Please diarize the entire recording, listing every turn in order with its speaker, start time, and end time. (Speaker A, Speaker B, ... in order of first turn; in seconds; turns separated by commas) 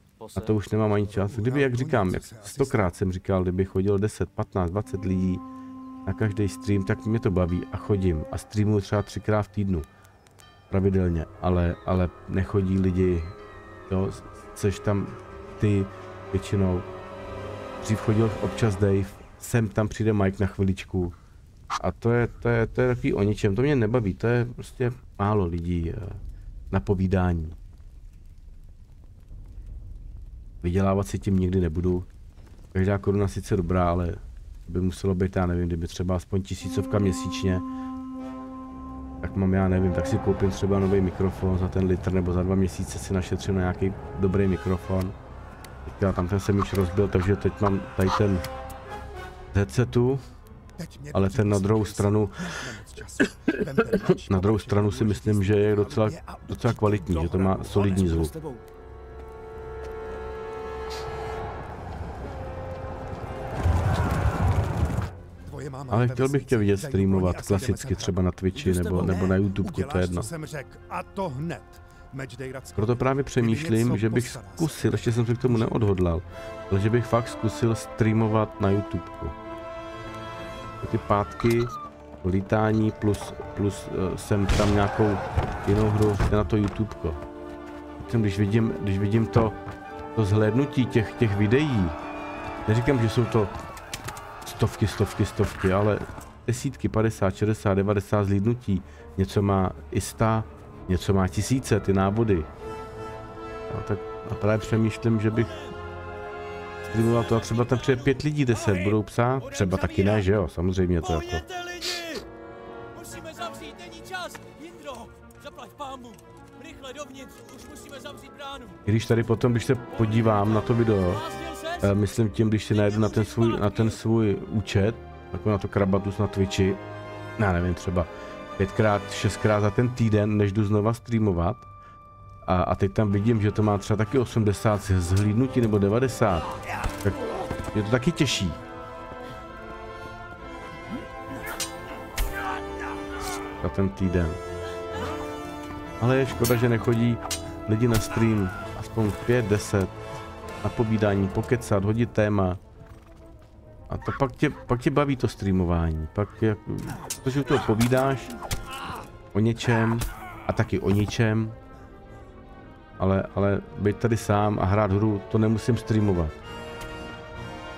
Speaker A: 0.2-0.6, Speaker B: 0.3-5.4, Speaker C: 1.0-3.0, Speaker B: 6.0-9.9, Speaker B: 10.7-13.3, Speaker B: 13.9-16.9, Speaker B: 17.8-21.1, Speaker B: 21.8-26.2, Speaker B: 26.7-27.6, Speaker B: 30.6-32.1, Speaker B: 32.7-37.6, Speaker B: 39.2-45.1, Speaker B: 45.8-48.4, Speaker B: 49.5-50.2, Speaker C: 50.8-58.1, Speaker B: 51.1-52.4, Speaker B: 53.8-58.3, Speaker A: 57.1-58.6, Speaker C: 65.4-76.0, Speaker B: 65.9-70.3, Speaker A: 68.6-69.1, Speaker B: 72.8-79.3, Speaker B: 80.8-87.2, Speaker B: 88.0-89.6, Speaker B: 90.1-92.0, Speaker B: 92.7-93.5, Speaker B: 94.4-102.5, Speaker B: 103.7-105.5, Speaker A: 105.4-105.7, Speaker A: 106.9-110.2, Speaker B: 106.9-111.4, Speaker A: 111.0-112.2, Speaker A: 113.0-118.8, Speaker B: 118.8-121.2, Speaker A: 119.9-121.9, Speaker B: 121.8-126.8, Speaker A: 122.7-124.0, Speaker B: 127.4-131.7, Speaker B: 132.4-136.5, Speaker B: 137.7-138.6, Speaker B: 143.6-144.4, Speaker B: 146.0-149.9, Speaker B: 150.6-152.6, Speaker B: 153.9-158.3, Speaker B: 159.3-161.6, Speaker B: 163.0-166.3